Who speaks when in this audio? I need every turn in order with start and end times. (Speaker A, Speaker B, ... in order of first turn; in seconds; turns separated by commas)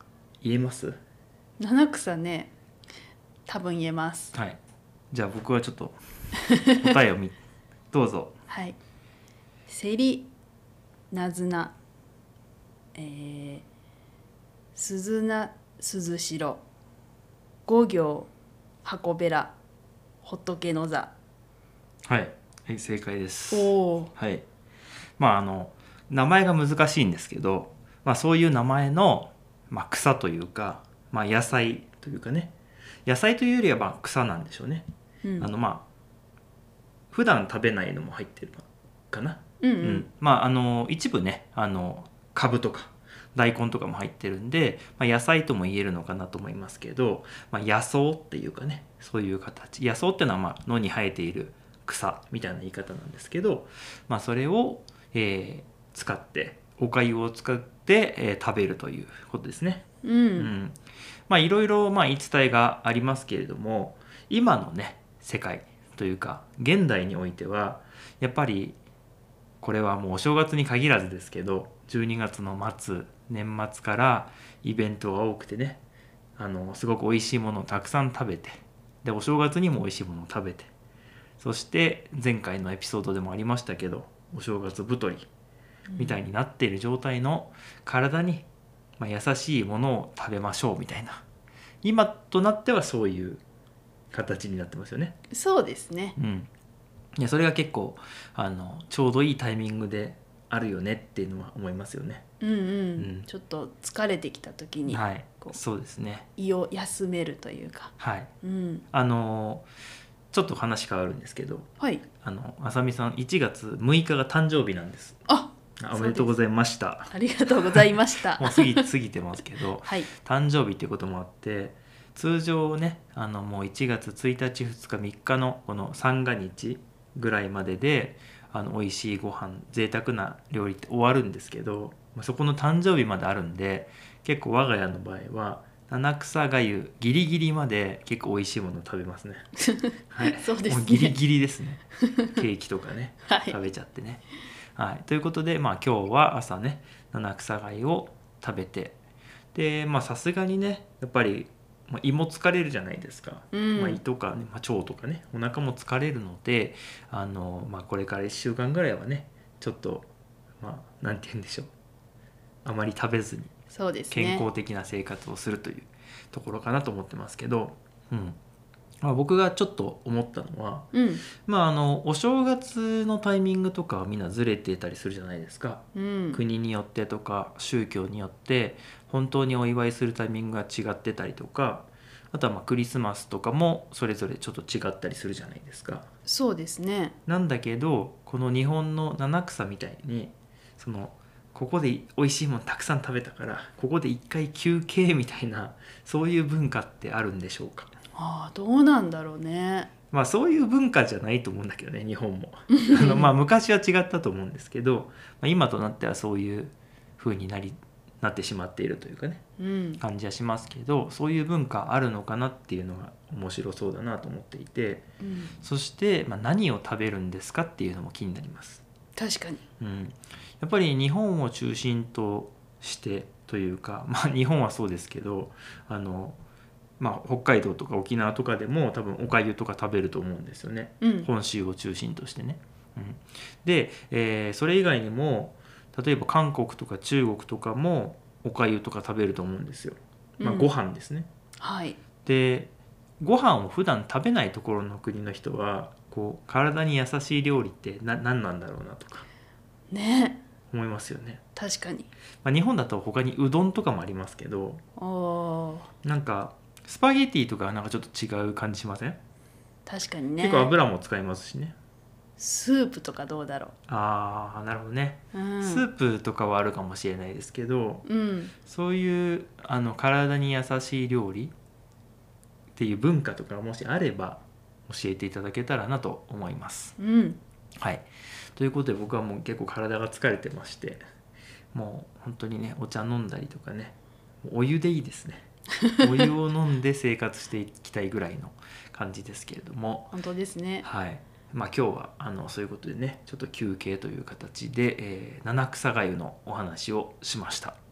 Speaker A: 0.4-1.0, Speaker B: 1.6-2.5, Speaker B: 3.5-4.4, Speaker A: 4.3-4.6, Speaker A: 5.1-6.0, Speaker A: 6.6-7.4, Speaker A: 7.9-8.3, Speaker B: 8.5-8.8, Speaker B: 9.7-10.3, Speaker B: 11.1-11.7, Speaker B: 12.9-13.7, Speaker B: 14.8-16.6, Speaker B: 17.7-18.3, Speaker B: 18.8-19.5, Speaker B: 20.2-21.1, Speaker A: 22.1-24.4, Speaker B: 23.5-24.1, Speaker A: 25.2-32.5, Speaker A: 33.0-34.9, Speaker B: 35.2-35.5, Speaker A: 35.4-35.9, Speaker A: 37.1-68.8, Speaker B: 39.6-40.1, Speaker B: 60.0-60.5, Speaker A: 69.6-75.8, Speaker A: 76.4-80.7, Speaker A: 81.4-85.3, Speaker B: 85.9-86.2, Speaker A: 86.0-88.5, Speaker A: 89.0-91.2, Speaker A: 91.8-93.4, Speaker A: 94.1-95.2, Speaker B: 95.3-96.2, Speaker A: 96.2-96.5, Speaker A: 97.2-102.2, Speaker B: 102.4-105.6, Speaker A: 103.0-103.3, Speaker A: 104.9-106.3, Speaker B: 106.4-108.9, Speaker A: 108.0-108.3, Speaker A: 108.9-109.7, Speaker A: 110.3-115.2, Speaker B: 115.3-116.3, Speaker A: 115.8-144.2, Speaker B: 117.1-118.9, Speaker B: 119.8-120.1, Speaker B: 139.7-141.2, Speaker B: 143.3-143.6, Speaker A: 144.8-149.0, Speaker A: 149.5-160.1, Speaker B: 153.5-154.0, Speaker A: 160.6-161.7, Speaker A: 162.7-163.5, Speaker B: 163.7-164.4, Speaker A: 164.1-168.4, Speaker A: 169.0-186.1, Speaker B: 170.9-171.2, Speaker B: 175.9-176.4, Speaker B: 186.3-187.2, Speaker A: 187.3-197.9, Speaker B: 198.2-199.9, Speaker A: 200.1-209.4, Speaker B: 202.8-203.3, Speaker B: 209.6-210.0, Speaker A: 210.0-215.1, Speaker B: 215.2-215.5, Speaker A: 215.6-218.8, Speaker B: 219.2-219.6, Speaker A: 219.8-226.4, Speaker A: 227.0-241.3, Speaker B: 231.0-231.3, Speaker B: 240.4-240.7, Speaker B: 241.6-242.0, Speaker A: 242.2-249.3, Speaker B: 249.9-250.4, Speaker A: 250.7-251.4, Speaker B: 251.6-252.1, Speaker A: 252.4-254.8, Speaker B: 255.0-255.9, Speaker A: 256.0-259.2, Speaker B: 259.9-260.7, Speaker A: 260.4-261.8, Speaker B: 262.4-263.7, Speaker A: 263.9-268.1, Speaker B: 265.3-265.9, Speaker B: 268.1-268.5, Speaker A: 268.6-271.5, Speaker A: 272.8-277.0, Speaker B: 277.0-277.4, Speaker A: 277.8-281.0, Speaker A: 281.7-290.1, Speaker B: 290.1-290.9, Speaker A: 290.8-297.8